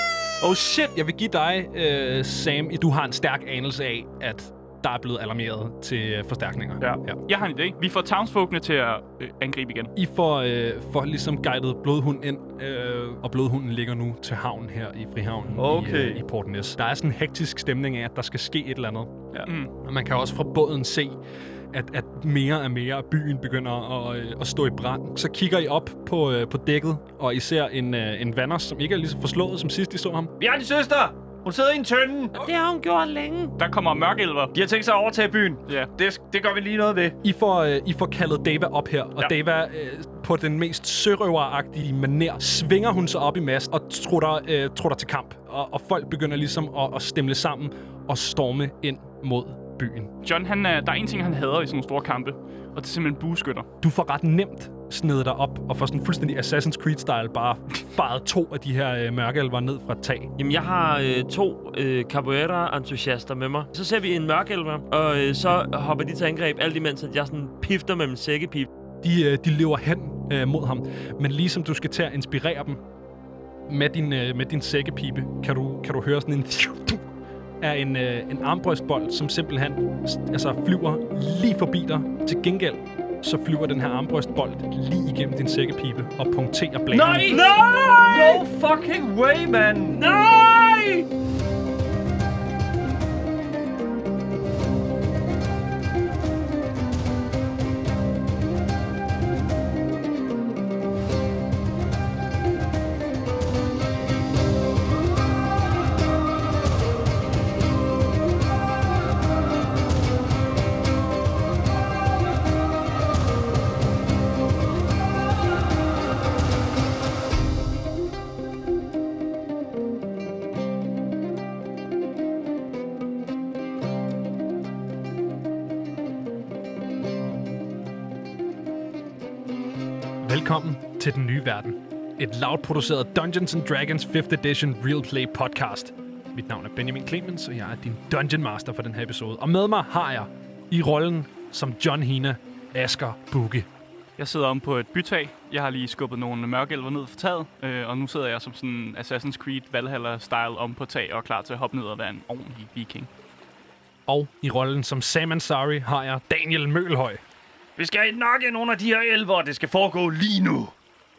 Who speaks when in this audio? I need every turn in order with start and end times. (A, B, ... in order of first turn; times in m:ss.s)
0:00.4-0:07.2 A
0:07.2-0:09.9 B
0:10.0-0:19.3 A
0:15.6-0:16.2 C
0:19.4-0:19.7 B
0:19.8-0:21.2 A
0:21.7-0:30.3 A
0:30.4-0:32.4 C
0:32.4-0:33.5 D
0:33.6-0:34.5 B
0:34.5-0:37.2 C
0:37.2-0:50.1 A
0:50.2-0:53.7 B
0:53.8-1:00.3 A
1:00.4-1:08.7 D
1:09.0-1:12.8 A
1:13.7-1:17.1 A
1:17.6-1:27.4 A
1:26.9-1:30.0 C
1:27.2-1:28.4 D
1:29.9-1:31.0 D
2:10.2-2:23.7 A
2:24.2-2:33.1 B
2:34.1-2:37.2 A
2:37.8-2:40.7 C